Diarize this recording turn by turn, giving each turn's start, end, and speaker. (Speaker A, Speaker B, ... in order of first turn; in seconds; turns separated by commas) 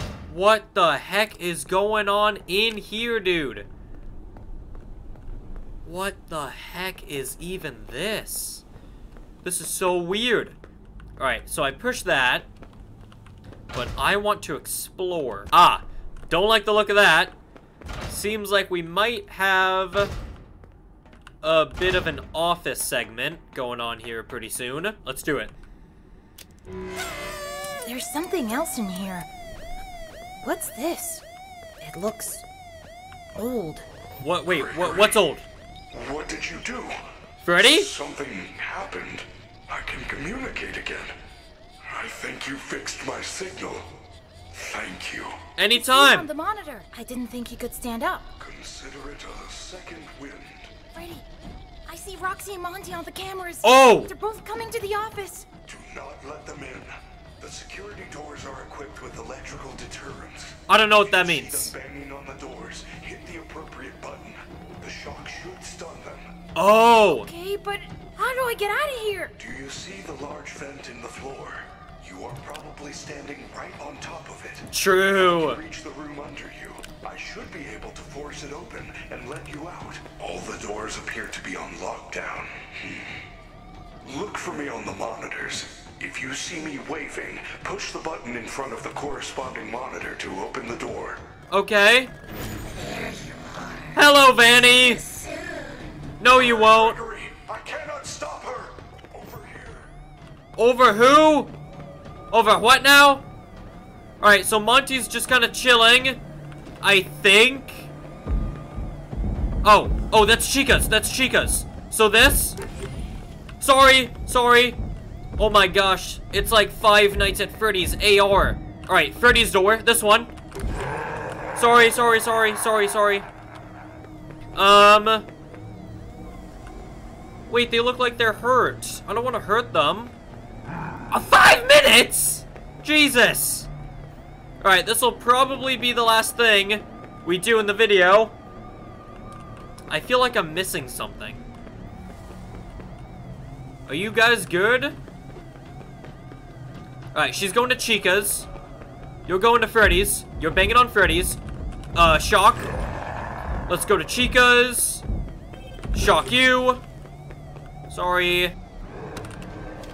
Speaker A: 0.3-3.7, Speaker A: 5.8-8.7, Speaker A: 9.4-10.6, Speaker A: 11.2-12.5, Speaker A: 13.7-17.4, Speaker A: 18.1-20.1, Speaker A: 21.4-25.5, Speaker B: 27.9-29.3, Speaker B: 30.4-31.2, Speaker B: 31.8-32.4, Speaker B: 33.3-33.9, Speaker A: 34.2-35.5, Speaker C: 34.5-35.2, Speaker C: 35.9-37.0, Speaker A: 37.4-37.9, Speaker C: 37.5-41.1, Speaker C: 41.8-43.9, Speaker C: 44.6-45.4, Speaker A: 45.6-46.3, Speaker B: 45.7-48.3, Speaker C: 48.4-50.7, Speaker B: 50.9-51.3, Speaker B: 51.9-55.5, Speaker A: 53.6-54.1, Speaker C: 55.7-66.3, Speaker A: 60.7-61.8, Speaker A: 66.5-67.3, Speaker B: 67.2-69.3, Speaker C: 69.4-83.2, Speaker A: 74.7-75.6, Speaker C: 84.0-91.2, Speaker A: 91.5-92.1, Speaker A: 93.9-95.1, Speaker A: 96.2-97.0, Speaker C: 96.3-99.9, Speaker A: 100.6-101.5, Speaker A: 102.3-103.3, Speaker A: 104.2-106.2, Speaker A: 106.8-107.9, Speaker A: 109.6-112.6, Speaker A: 113.6-114.8, Speaker A: 115.4-120.3, Speaker A: 121.6-123.3, Speaker A: 124.6-125.3, Speaker A: 127.5-130.1, Speaker A: 131.1-133.7, Speaker A: 134.6-138.3, Speaker A: 139.9-141.4, Speaker A: 143.9-145.0, Speaker A: 147.1-148.5, Speaker A: 149.3-151.4, Speaker A: 151.9-152.7, Speaker A: 153.7-155.0, Speaker A: 155.9-156.8, Speaker A: 157.9-158.6